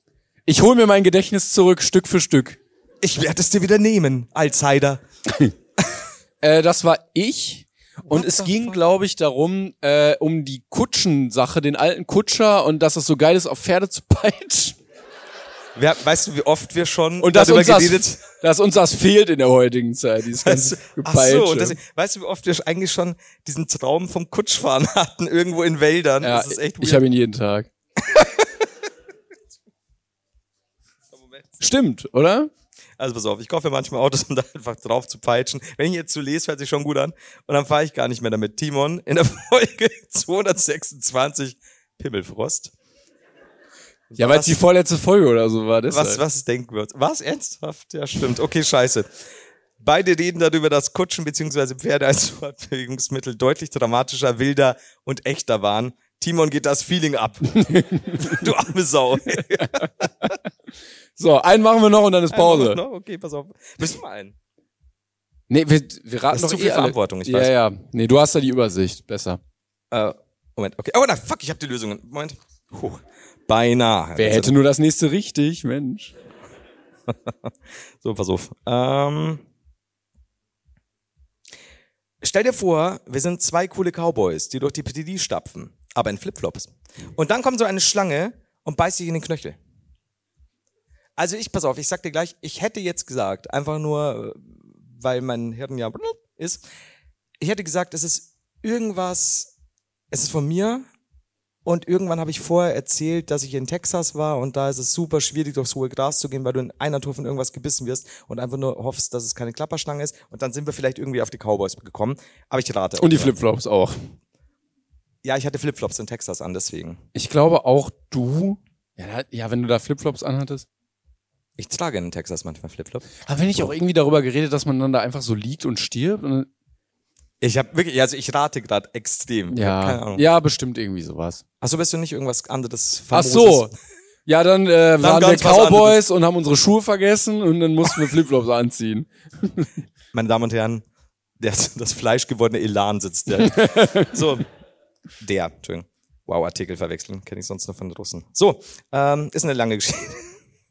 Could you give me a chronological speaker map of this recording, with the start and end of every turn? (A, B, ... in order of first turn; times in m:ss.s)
0:00.5-0:02.6 A
0:03.0-0:05.0 B
0:06.4-0:14.8 A
0:08.1-0:08.8 B
0:15.8-0:18.2 B
0:17.2-0:21.8 A
0:20.4-0:27.0 B
0:26.2-0:27.7 A
0:28.0-0:28.5 B
0:31.1-0:31.5 B
0:31.6-0:32.5 A
0:33.0-0:42.7 B
0:44.1-0:44.6 B
0:44.2-0:46.2 A
0:45.9-0:49.1 B
0:49.8-1:00.1 B
0:57.6-0:58.4 A
0:59.4-0:59.9 A
1:01.2-1:02.8 A
1:02.3-1:04.4 B
1:05.5-1:09.4 A
1:06.3-1:07.5 B
1:09.9-1:14.6 B
1:14.2-1:16.1 A
1:18.0-1:19.4 B
1:22.2-1:29.6 B
1:31.2-1:36.6 B
1:37.4-1:39.5 B
1:40.1-1:40.8 B
1:41.7-1:53.4 B
1:53.0-1:54.1 A
1:55.2-1:57.0 B
1:57.2-2:00.7 A
2:01.6-2:03.2 B
2:03.2-2:06.5 A
2:07.4-2:10.2 B
2:09.5-2:11.4 A
2:11.6-2:13.7 B
2:13.1-2:13.7 A
2:14.3-2:19.7 A
2:15.0-2:16.0 B
2:20.1-2:20.8 B
2:21.4-2:24.5 B
2:23.3-2:24.4 A
2:25.2-2:30.4 B